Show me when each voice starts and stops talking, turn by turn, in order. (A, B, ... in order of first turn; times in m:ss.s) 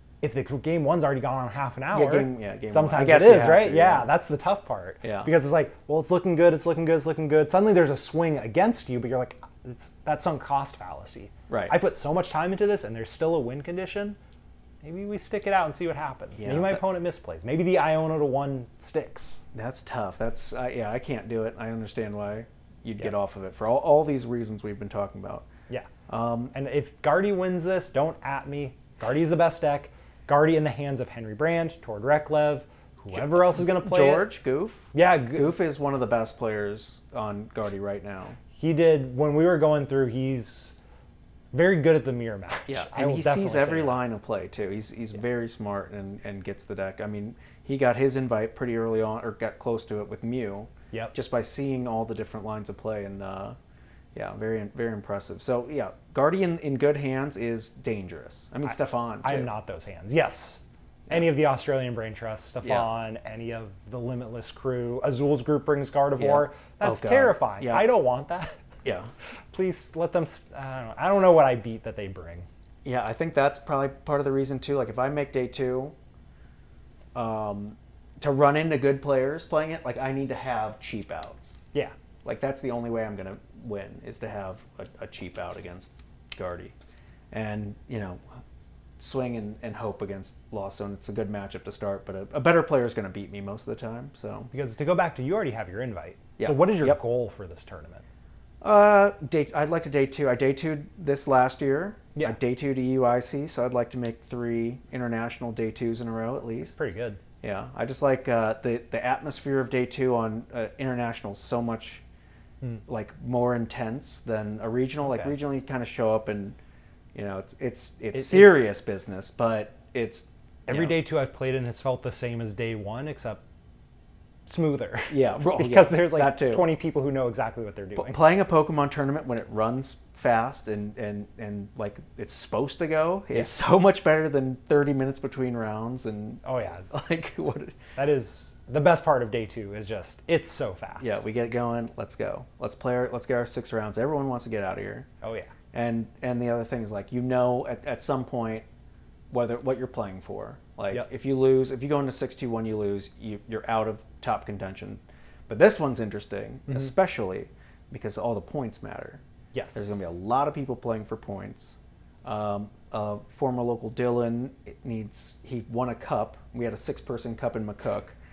0:00.2-0:14.2 A
0:01.9-0:04.1 B
0:05.0-0:05.3 B
0:11.5-0:11.8 B
0:14.8-0:19.4 A
0:16.4-0:16.8 B
0:19.5-0:25.5 B
0:26.1-0:26.5 B
0:26.5-0:34.3 A
0:33.1-0:38.4 B
0:34.9-0:35.5 A
0:38.6-0:40.8 A
0:41.5-0:44.0 A
0:42.7-0:53.6 B
0:54.2-0:59.5 B
0:58.7-1:08.6 A
1:02.6-1:02.9 B
1:06.2-1:07.9 B
1:08.8-1:09.1 B
1:09.5-1:12.5 A
1:12.8-1:16.0 B
1:17.2-1:21.6 B
1:22.2-1:26.7 B
1:27.3-1:28.2 B
1:29.0-1:34.5 B
1:34.5-1:38.0 A
1:36.4-1:37.0 B
1:38.6-1:46.8 B
1:46.8-1:47.2 A
1:47.4-1:52.0 B
1:52.9-1:56.6 B
1:55.0-1:55.3 A
1:57.2-2:01.0 B
1:58.1-1:58.5 A
2:00.7-2:03.4 A
2:04.5-2:08.2 A
2:05.1-2:06.7 B
2:08.0-2:17.8 B
2:16.4-2:16.9 A
2:18.0-2:21.2 A
2:21.0-2:25.1 B
2:25.2-2:25.5 A
2:25.7-2:28.6 B
2:29.3-2:39.2 B
2:39.5-2:40.0 A
2:39.7-2:48.2 B